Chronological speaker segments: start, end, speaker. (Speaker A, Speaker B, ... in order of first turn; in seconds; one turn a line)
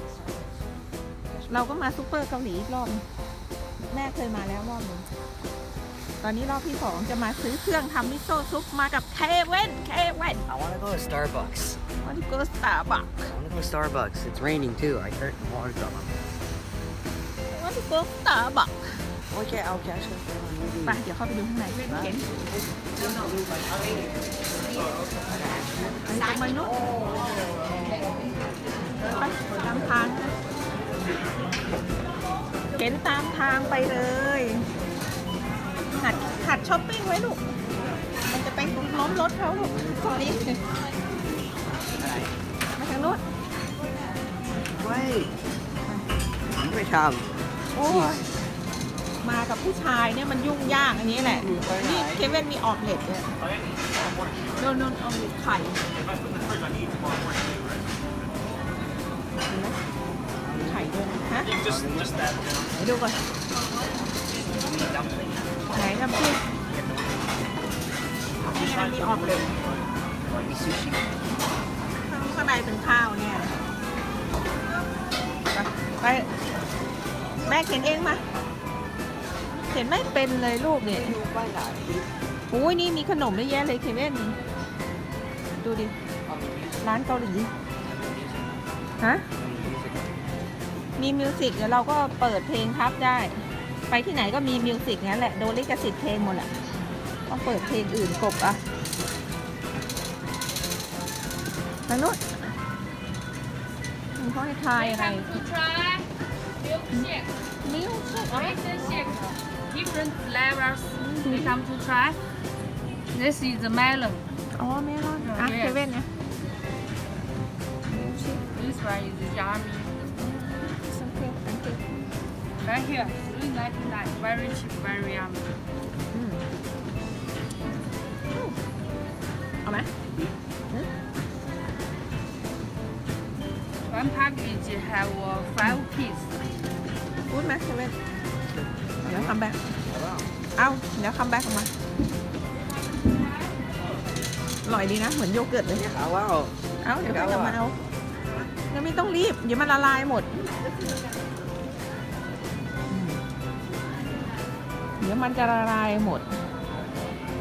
Speaker A: 1.3-1.7
Speaker B: 1.5-3.0
Speaker B: 3.9-5.1
Speaker B: 6.2-10.4
Speaker A: 10.5-11.8
Speaker B: 12.0-13.3
Speaker A: 13.2-16.1
Speaker B: 17.5-19.0
Speaker A: 19.3-21.0
Speaker B: 20.8-22.2
Speaker A: 25.3-26.1
Speaker B: 26.1-26.8
Speaker B: 29.1-30.3
Speaker B: 32.8-34.6
Speaker B: 35.9-37.4
Speaker B: 38.3-40.6
Speaker A: 39.5-40.4
Speaker A: 41.8-42.3
Speaker B: 42.8-43.2
Speaker A: 44.7-45.3
Speaker A: 46.5-48.2
Speaker B: 47.7-48.2
Speaker B: 49.2-53.3
Speaker A: 51.3-52.5
Speaker B: 54.6-55.8
Speaker B: 59.5-59.8
Speaker A: 60.4-62.4
Speaker B: 60.6-61.5
Speaker B: 62.7-63.2
Speaker A: 64.4-65.5
Speaker B: 65.7-66.4
Speaker A: 66.7-67.3
Speaker B: 68.4-69.5
Speaker A: 70.4-71.2
Speaker B: 72.0-73.6
Speaker B: 75.5-76.3
Speaker B: 77.4-78.2
Speaker B: 79.7-81.2
Speaker A: 80.8-82.1
Speaker B: 82.5-84.4
Speaker B: 85.6-85.9
Speaker A: 86.2-87.1
Speaker B: 86.8-87.5
Speaker A: 87.8-88.6
Speaker B: 89.0-89.2
Speaker A: 89.3-90.2
Speaker B: 91.0-96.5
Speaker B: 97.3-98.6
Speaker B: 101.9-102.4
Speaker B: 104.1-105.3
Speaker C: 104.7-106.1
Speaker C: 106.6-107.3
Speaker B: 107.6-108.6
Speaker C: 108.3-112.2
Speaker B: 111.0-111.6
Speaker C: 113.1-114.2
Speaker B: 114.5-116.1
Speaker C: 115.2-115.9
Speaker B: 117.9-118.4
Speaker C: 118.5-120.1
Speaker B: 120.2-121.8
Speaker C: 122.6-125.5
Speaker B: 126.1-126.4
Speaker B: 129.6-129.9
Speaker C: 133.8-136.3
Speaker B: 137.3-137.9
Speaker A: 138.5-140.3
Speaker B: 139.1-139.6
Speaker B: 140.6-141.7
Speaker B: 144.6-145.8
Speaker A: 145.7-147.6
Speaker B: 146.8-147.7
Speaker B: 148.7-150.3
Speaker B: 152.9-153.2
Speaker B: 155.0-156.3